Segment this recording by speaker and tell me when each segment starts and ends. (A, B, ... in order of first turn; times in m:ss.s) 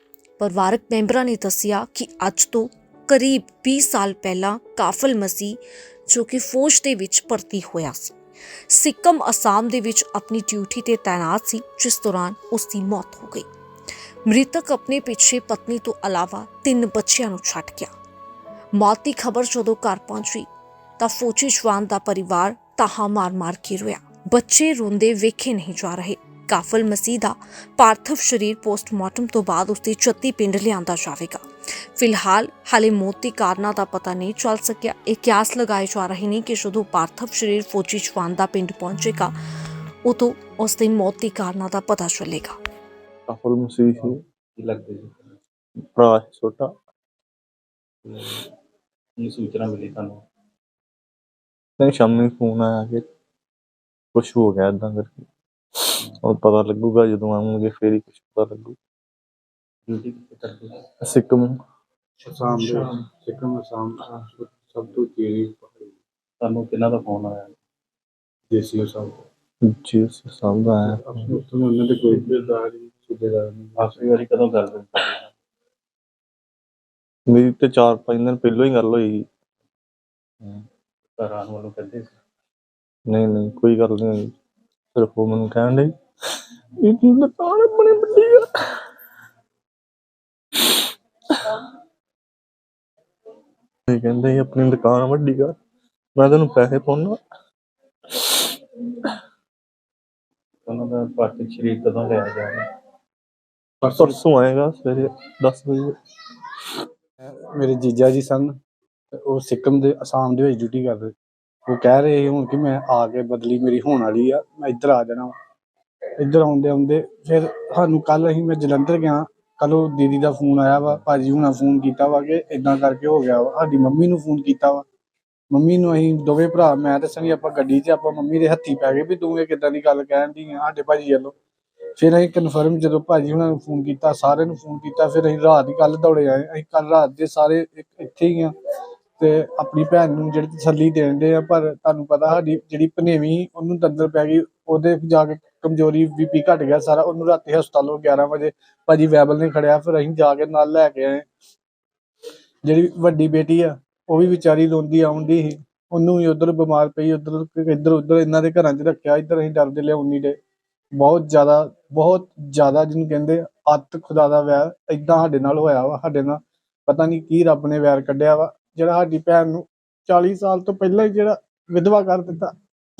0:00.4-0:08.2 A
0:08.7-0:13.5 A
0:14.3-0:17.9 A
0:18.7-0:31.4 A
0:32.0-0:39.3 A
0:40.0-0:42.6 A
0:43.3-0:44.2 B
0:44.0-0:45.3 C
0:45.8-0:46.7 B
0:48.0-0:48.4 C
0:49.2-0:50.2 C
0:51.8-0:53.0 B
0:54.1-0:55.3 B
0:55.8-0:58.8 B
0:59.9-1:00.8 C
1:01.0-1:01.6 B
1:02.2-1:05.9 D
1:06.4-1:07.5 C
1:08.5-1:09.2 D
1:09.6-1:11.0 B
1:10.9-1:14.2 D
1:13.8-1:15.3 C
1:17.3-1:19.2 B
1:21.2-1:22.2 C
1:23.1-1:24.3 B
1:24.9-1:25.9 B
1:26.8-1:28.7 B
1:31.3-1:31.6 B
1:33.9-1:35.5 B
1:36.2-1:37.2 B
1:38.1-1:38.5 B
1:40.6-1:42.6 C
1:43.8-1:44.2 D
1:43.8-1:46.0 B
1:47.2-1:48.6 D
1:49.1-1:51.1 D
1:51.7-1:55.3 D
1:56.2-2:04.8 D
2:05.5-2:11.3 D
2:12.0-2:18.5 D
2:19.2-2:31.2 D
2:32.6-2:40.4 D
2:41.0-2:52.5 D